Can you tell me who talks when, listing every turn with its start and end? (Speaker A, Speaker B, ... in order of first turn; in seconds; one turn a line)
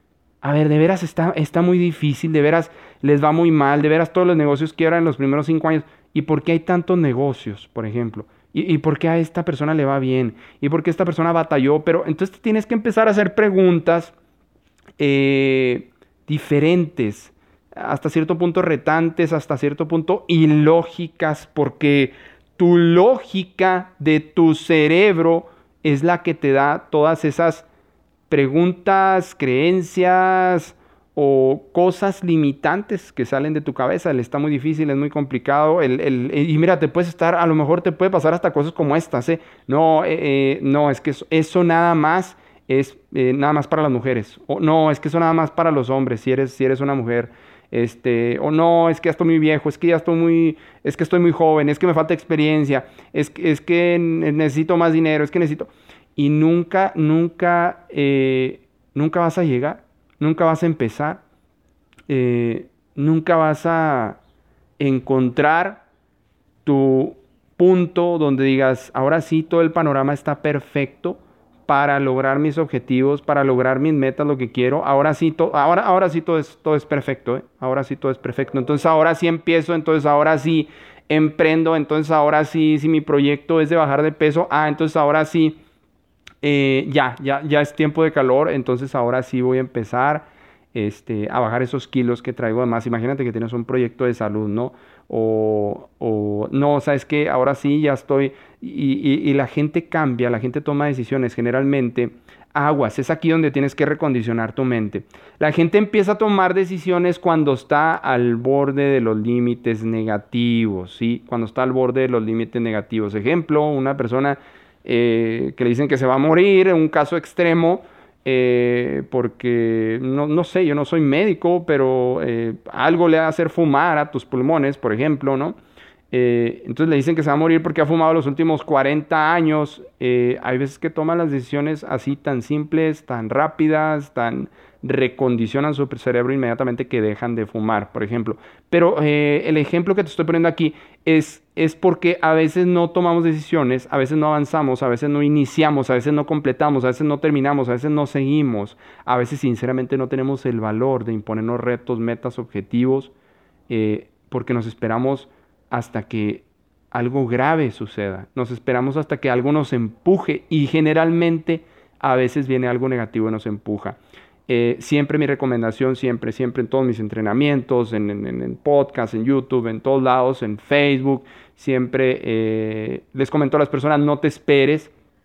Speaker A: 0.4-14.1
Speaker A: 15.0-27.6
Speaker A: 28.3-61.2
Speaker A: 62.1-64.2
Speaker A: 64.8-65.8
Speaker A: 66.6-85.6
Speaker A: 86.4-125.6
Speaker A: 126.1-153.1
Speaker A: 153.7-174.9